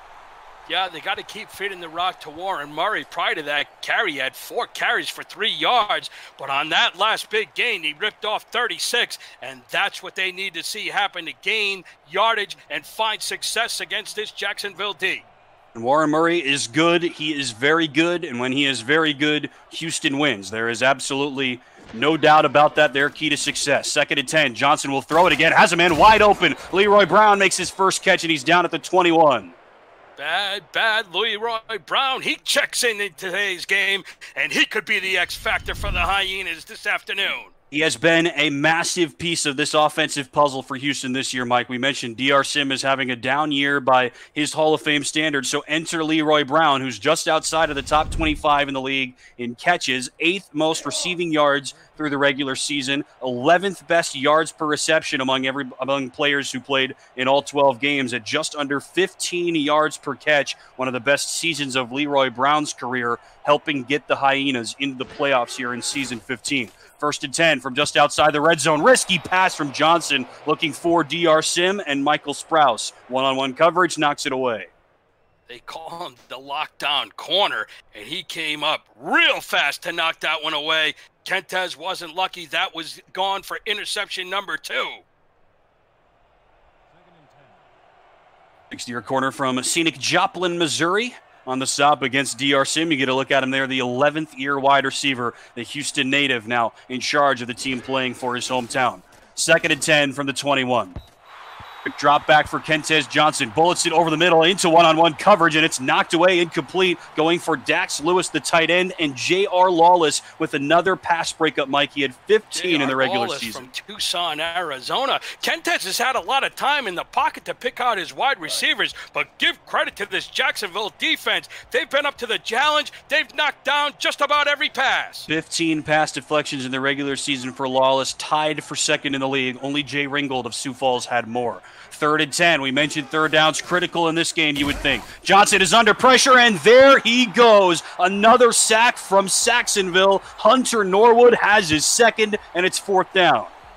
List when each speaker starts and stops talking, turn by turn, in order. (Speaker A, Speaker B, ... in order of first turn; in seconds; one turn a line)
Speaker A: 0.7-15.3
Speaker B: 15.7-29.6
Speaker A: 30.2-37.5
Speaker B: 37.7-74.7
Speaker A: 75.5-85.0
Speaker B: 88.7-101.0
Speaker B: 101.8-113.7
Speaker A: 112.5-125.3
Speaker B: 125.3-143.5